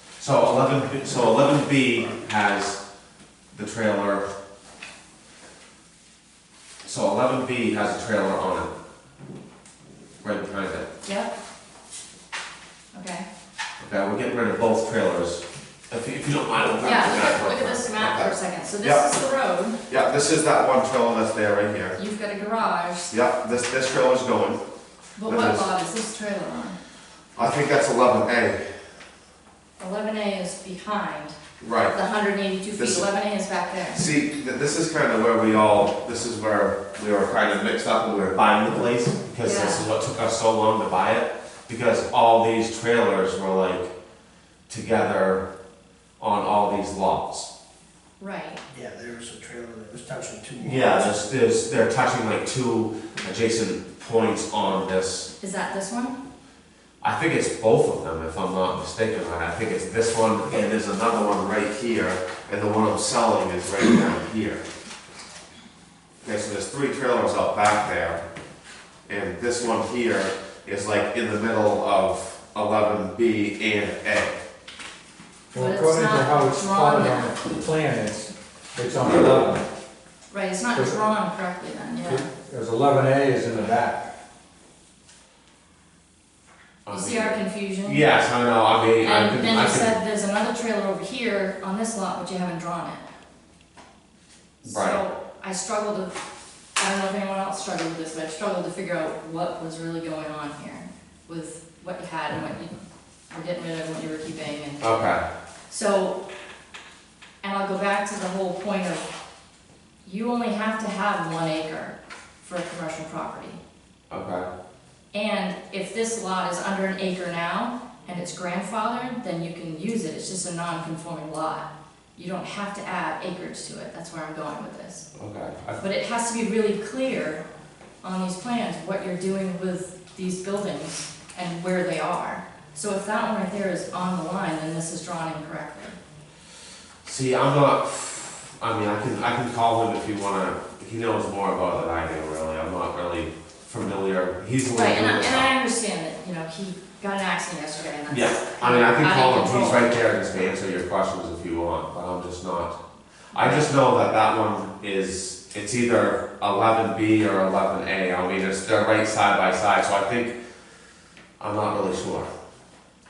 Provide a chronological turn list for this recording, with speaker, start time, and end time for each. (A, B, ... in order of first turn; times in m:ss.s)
0:00.2-0:02.8 A
0:03.5-0:04.3 A
0:06.8-0:08.7 A
0:10.2-0:10.9 A
0:11.0-0:11.3 B
0:12.9-0:13.3 B
0:13.8-0:19.0 A
0:16.8-0:19.8 B
0:19.9-0:22.0 A
0:22.0-0:23.1 B
0:23.1-0:24.6 A
0:25.2-0:26.8 B
0:25.2-0:25.7 A
0:27.4-0:28.6 A
0:29.8-0:31.4 B
0:31.6-0:32.0 A
0:31.9-0:34.0 B
0:32.8-0:33.1 A
0:33.9-0:43.9 A
0:39.4-0:39.9 B
0:44.7-0:45.4 A
0:46.2-0:47.5 A
0:48.2-0:48.6 B
0:48.7-0:51.2 C
0:50.6-0:55.3 A
0:55.4-0:56.2 B
0:57.0-1:04.6 A
1:06.2-1:08.2 A
1:09.1-1:14.4 A
1:15.5-1:19.6 D
1:15.6-1:17.5 B
1:20.3-1:22.3 B
1:22.0-1:24.1 D
1:26.8-1:30.0 A
1:26.9-1:28.1 B
1:29.0-1:33.1 B
1:34.6-1:36.1 B
1:34.6-1:35.0 A
1:36.8-1:42.8 B
1:43.3-1:44.9 B
1:44.8-1:45.2 A
1:45.7-1:46.2 B
1:47.4-1:49.1 B
1:50.0-1:53.6 B
1:54.1-1:54.5 A
1:55.1-2:05.1 B
2:05.2-2:05.8 A
2:05.8-2:07.4 B
2:08.0-2:16.0 B
2:17.0-2:25.5 A
2:24.7-2:30.0 B
2:28.1-2:32.8 A
2:33.3-2:40.4 A
2:33.4-2:33.8 B
2:41.4-2:42.3 A